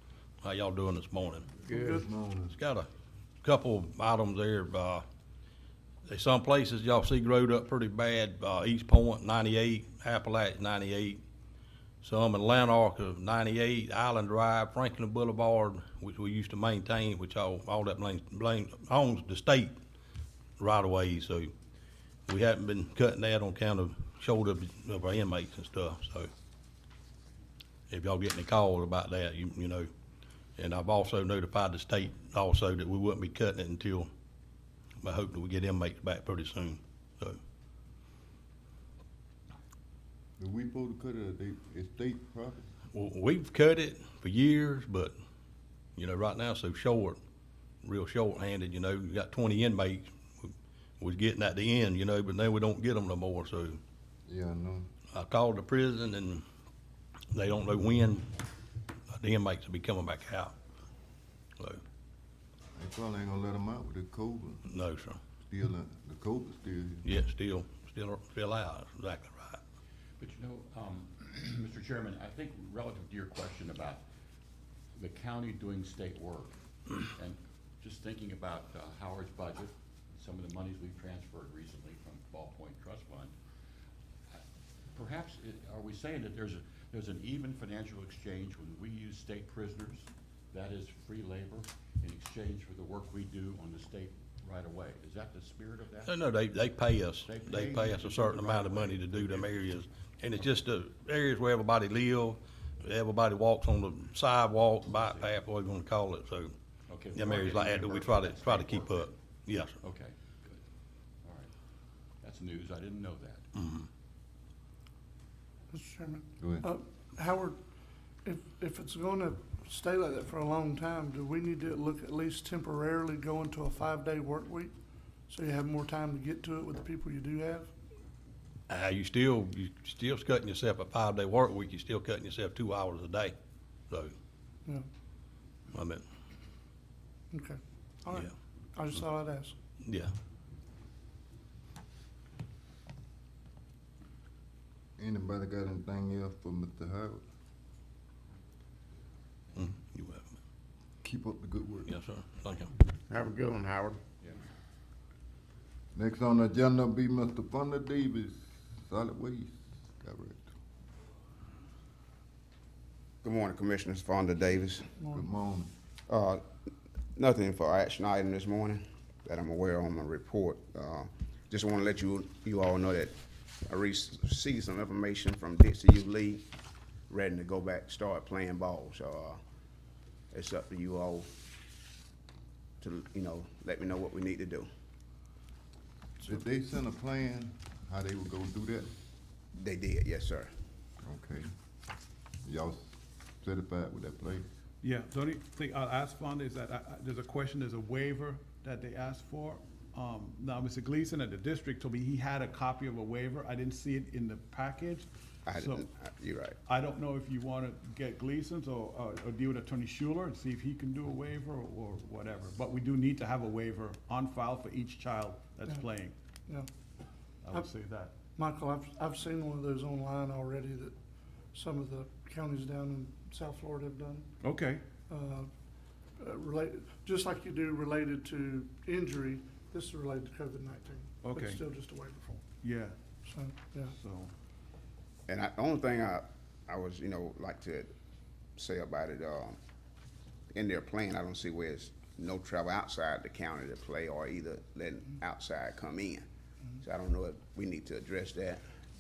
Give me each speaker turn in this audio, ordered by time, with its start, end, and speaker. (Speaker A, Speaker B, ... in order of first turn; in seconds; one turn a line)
Speaker A: 0.4-1.5
Speaker B: 1.6-2.6
Speaker C: 1.7-2.1
Speaker A: 2.5-2.9
Speaker A: 3.4-5.0
Speaker A: 6.0-11.2
Speaker A: 12.0-19.8
Speaker A: 20.6-21.5
Speaker A: 22.3-26.3
Speaker A: 27.9-29.9
Speaker A: 30.6-34.1
Speaker A: 35.0-37.4
Speaker B: 40.4-42.7
Speaker A: 42.9-45.2
Speaker A: 46.0-47.2
Speaker A: 47.8-53.8
Speaker B: 54.3-54.9
Speaker A: 55.1-56.4
Speaker A: 57.3-58.3
Speaker A: 59.1-60.5
Speaker B: 62.8-64.6
Speaker A: 64.7-65.2
Speaker B: 65.5-67.1
Speaker A: 67.0-69.6
Speaker D: 70.2-74.0
Speaker D: 75.0-83.3
Speaker D: 84.9-96.2
Speaker A: 96.0-106.5
Speaker D: 97.2-99.6
Speaker D: 104.9-105.3
Speaker D: 106.9-109.2
Speaker A: 107.1-109.8
Speaker D: 109.8-110.6
Speaker D: 111.2-111.5
Speaker D: 112.2-113.5
Speaker A: 113.5-113.9
Speaker C: 115.7-117.6
Speaker B: 116.4-116.7
Speaker C: 118.2-124.7
Speaker C: 125.3-127.7
Speaker A: 128.7-133.3
Speaker A: 135.7-136.0
Speaker C: 137.3-139.6
Speaker A: 139.8-140.1
Speaker B: 145.0-147.2
Speaker A: 149.6-150.3
Speaker B: 151.0-151.9
Speaker A: 151.9-152.7
Speaker B: 155.9-160.5
Speaker E: 163.2-164.9
Speaker C: 165.0-165.2
Speaker B: 165.1-165.7
Speaker E: 166.1-166.4
Speaker E: 167.2-176.4
Speaker E: 177.1-179.4
Speaker E: 180.3-181.3
Speaker E: 182.8-184.7
Speaker B: 186.2-188.9
Speaker E: 189.6-190.5
Speaker B: 191.0-191.5
Speaker B: 192.4-194.5
Speaker F: 194.8-205.8
Speaker E: 205.5-206.6
Speaker F: 206.7-216.1
Speaker F: 217.4-218.1
Speaker C: 218.4-220.9
Speaker C: 221.5-224.3
Speaker F: 224.4-224.8
Speaker C: 225.1-225.5
Speaker C: 226.2-232.5
Speaker F: 231.2-231.7
Speaker F: 232.6-233.0
Speaker C: 233.2-233.9
Speaker F: 233.9-234.3
Speaker E: 235.3-237.9
Speaker E: 238.6-239.6
Speaker E: 240.5-246.3
Speaker E: 246.8-248.6